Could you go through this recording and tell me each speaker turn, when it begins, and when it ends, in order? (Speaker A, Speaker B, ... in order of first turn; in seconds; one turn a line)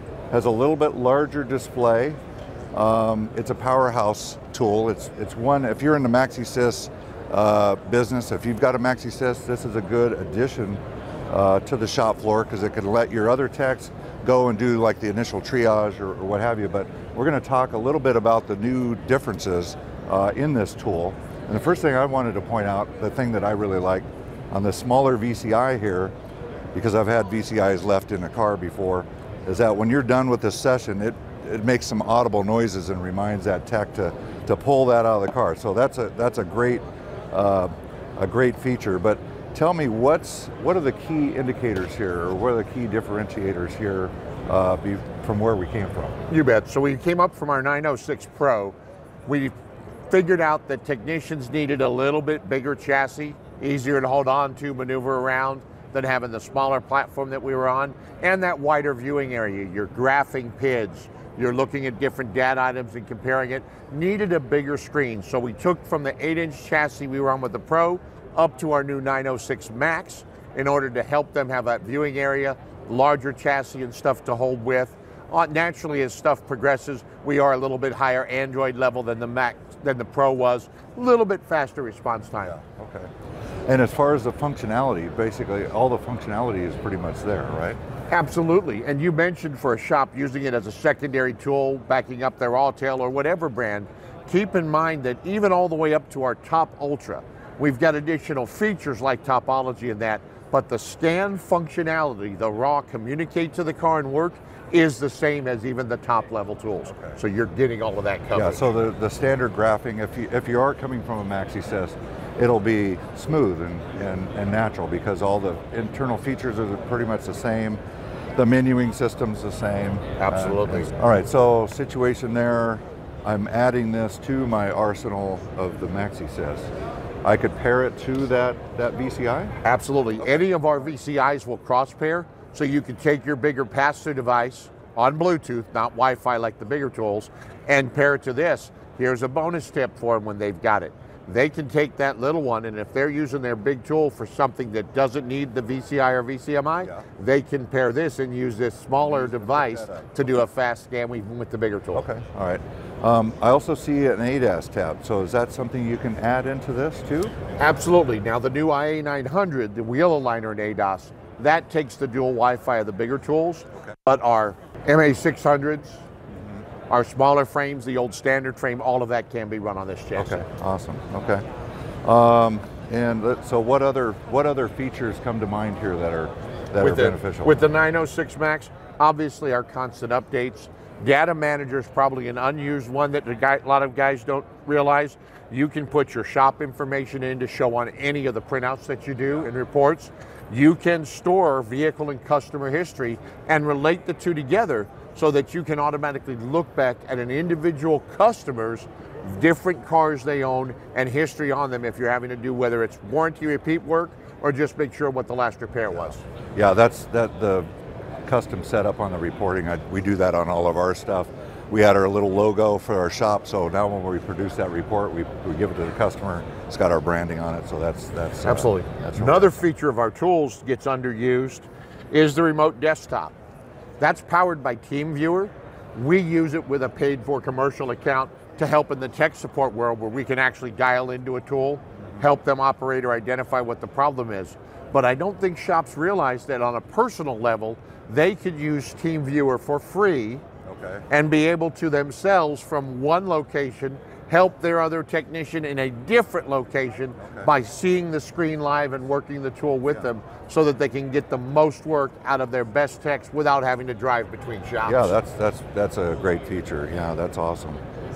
Speaker A: 0.3-2.2
Speaker A: 2.7-26.1
Speaker A: 26.7-46.2
Speaker B: 46.3-49.5
Speaker B: 50.1-82.6
Speaker A: 82.4-83.1
Speaker A: 83.7-87.8
Speaker B: 88.1-108.6
Speaker A: 106.9-107.2
Speaker A: 108.3-117.8
Speaker A: 118.3-126.7
Speaker B: 120.2-120.9
Speaker A: 127.2-129.5
Speaker B: 129.6-152.1
Speaker A: 149.0-150.4
Speaker A: 151.9-157.4
Speaker B: 157.6-166.1
Speaker B: 166.9-170.4
Speaker A: 170.1-171.4
Speaker A: 172.0-177.6
Speaker B: 176.8-206.2
Speaker A: 206.6-207.7
Speaker A: 208.2-219.6
Speaker B: 218.4-223.3
Speaker B: 224.0-240.4
Speaker A: 240.7-241.0
Speaker B: 241.1-255.2
Speaker A: 247.2-247.5
Speaker A: 254.8-257.8